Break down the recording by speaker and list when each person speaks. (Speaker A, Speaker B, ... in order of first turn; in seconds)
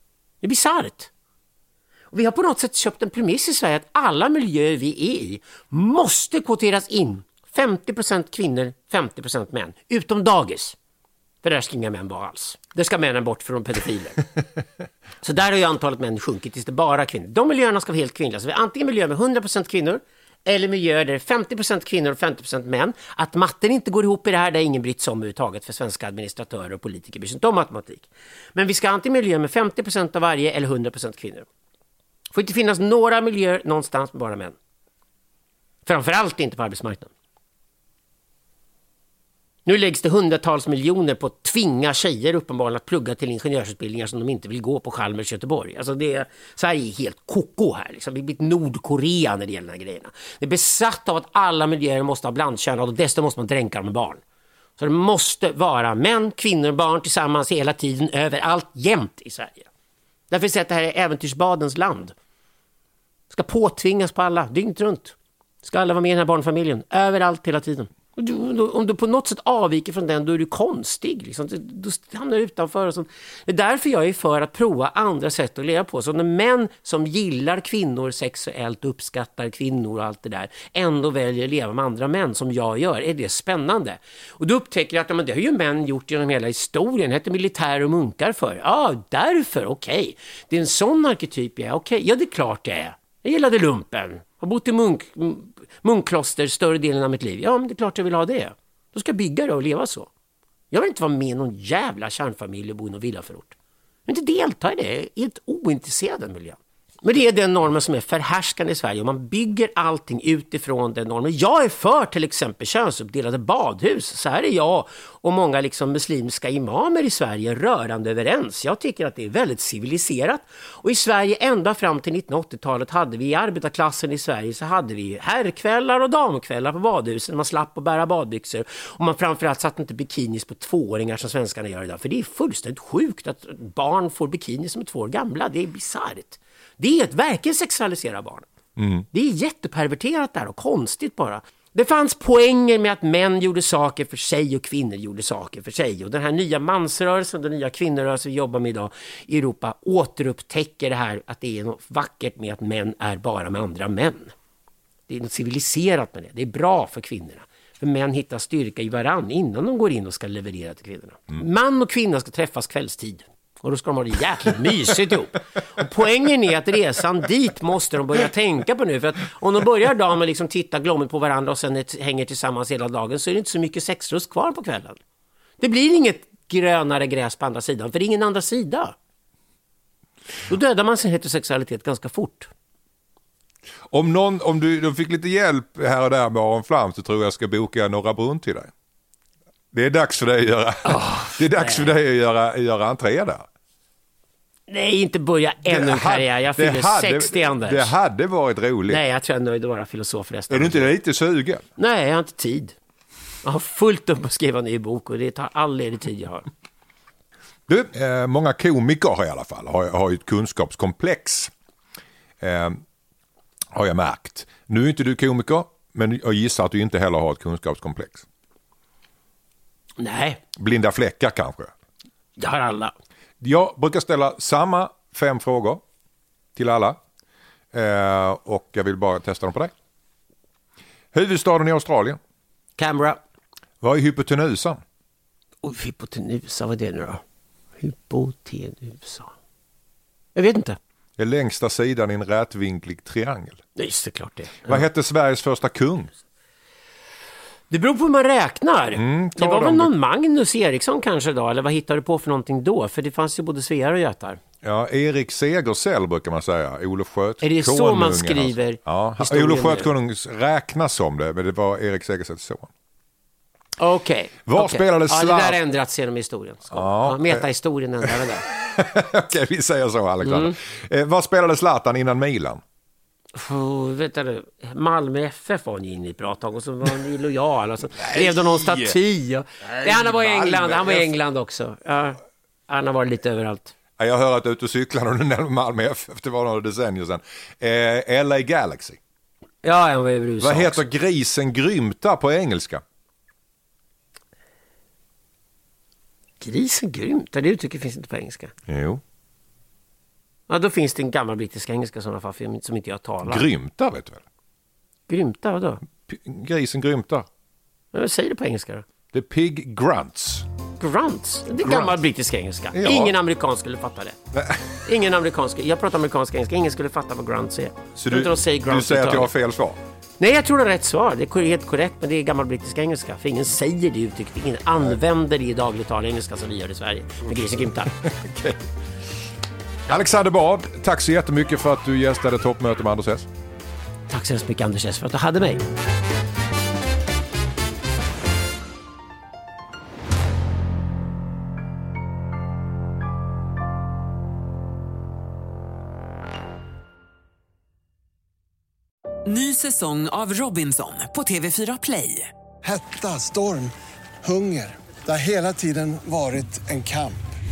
Speaker A: 0.4-1.1, 2.1-10.8, 11.4-14.2, 15.2-31.5, 32.3-34.5, 35.9-37.1, 39.6-54.2, 54.8-59.7, 60.3-62.1, 63.3-100.1, 100.7-103.5, 104.1-138.5, 139.1-154.3, 155.1-175.0, 175.6-178.9, 180.5-182.5, 190.8-191.9, 194.7-197.9, 198.9-200.9, 201.8-202.7, 203.4-206.5, 220.0-220.4, 222.4-222.9, 232.8-233.2, 235.6-237.2, 237.8-239.3, 240.3-240.8, 243.8-244.8, 247.7-254.4, 257.4-259.9, 263.8-268.4, 270.2-270.6, 273.3-283.7, 289.6-290.8, 296.4-298.5, 300.5-303.4, 305.1-305.8, 307.9-308.9, 310.8-314.2, 314.8-319.3, 320.2-328.0, 334.1-335.6
Speaker B: 138.8-139.1, 183.9-188.7, 189.7-193.4, 195.7-199.0, 200.5-201.6, 207.7-211.5, 212.4-212.8, 213.7-218.2, 220.6-221.7, 223.4-225.8, 226.5-227.0, 227.7-229.7, 231.1-232.2, 233.8-234.8, 241.2-243.6, 244.7-246.1, 248.9-249.9, 254.6-262.7, 264.5-265.6, 266.7-267.4, 268.0-272.6, 278.1-278.9, 279.8-281.1, 284.0-289.0, 290.4-292.8, 298.7-299.0, 303.2-304.2, 306.1-307.3, 309.1-310.5, 311.6-311.9, 312.7-313.1, 314.3-314.8, 317.9-319.8, 328.0-328.6, 329.9-333.3
Speaker C: 349.2-352.3
Speaker D: 352.6-357.2